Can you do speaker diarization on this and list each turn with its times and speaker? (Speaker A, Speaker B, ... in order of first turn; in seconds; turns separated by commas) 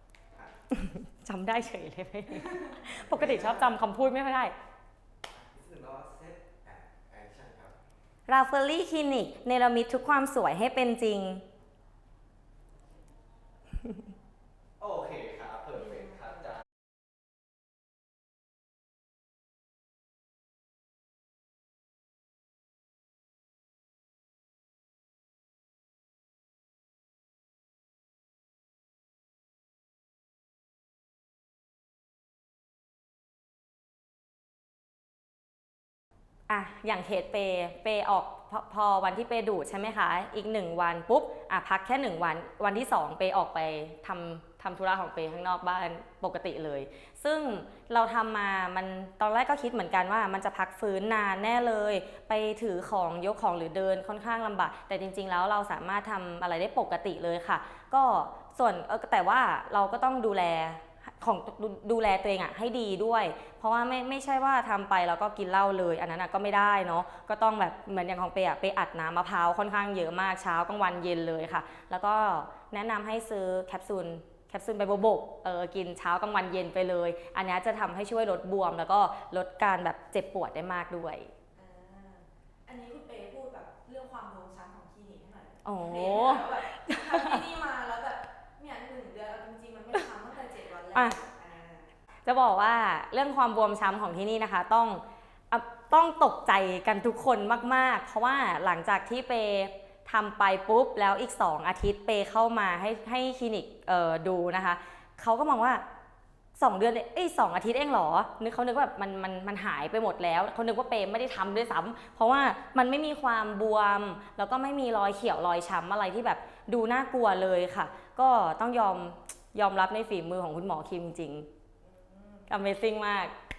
Speaker A: 0.8-4.5, Speaker B: 2.9-3.8, Speaker B: 5.3-7.8, Speaker A: 8.3-11.4, Speaker B: 14.8-16.6, Speaker A: 36.5-81.3, Speaker C: 81.5-91.9, Speaker A: 85.7-87.5, Speaker A: 92.2-105.8, Speaker A: 106.6-121.5, Speaker C: 121.8-122.5, Speaker A: 122.5-123.3